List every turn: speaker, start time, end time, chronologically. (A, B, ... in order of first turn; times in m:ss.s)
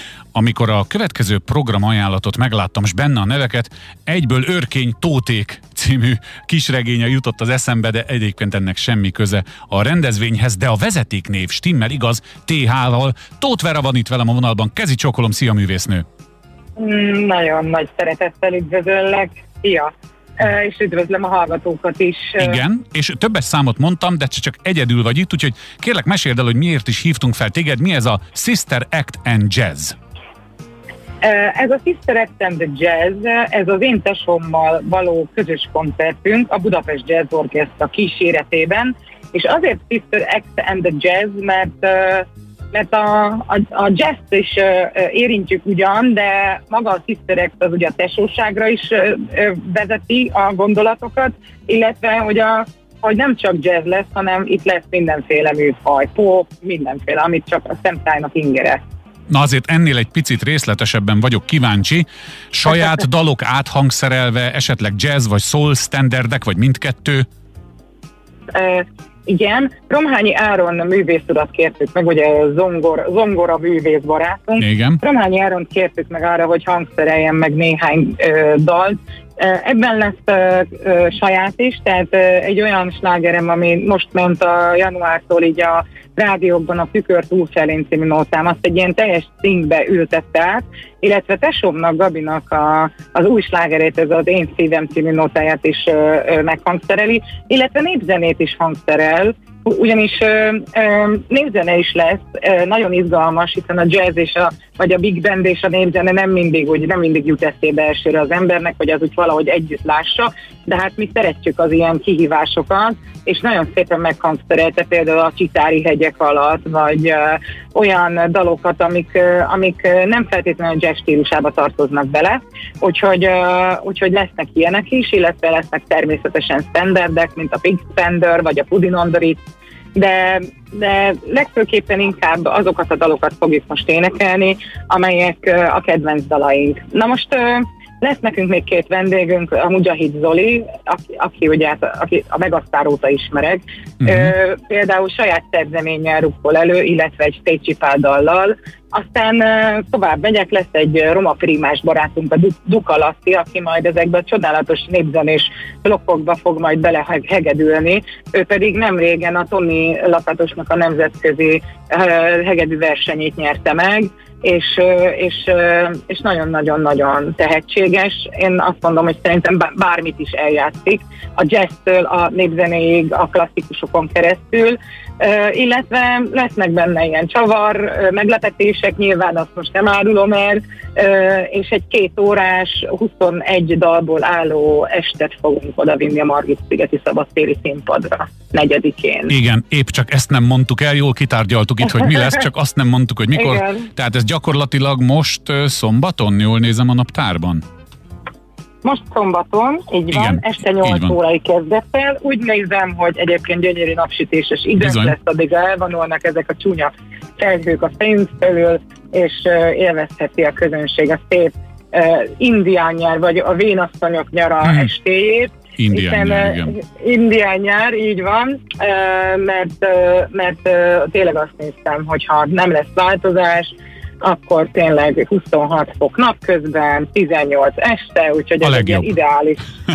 0:00.3-0:16.0 A
0:16.8-0:22.6 B
0:22.4-0:29.9 A
0:31.2-0:58.8 B
0:59.3-1:07.2 A
1:08.5-2:09.4 B
1:14.6-1:15.0 A
2:09.9-3:09.3 B
3:09.3-3:17.6 A
3:13.3-3:13.9 B
3:18.8-3:49.6 B
3:20.1-3:21.1 A
3:24.8-3:25.1 A
3:35.8-3:36.8 A
3:48.6-3:49.1 A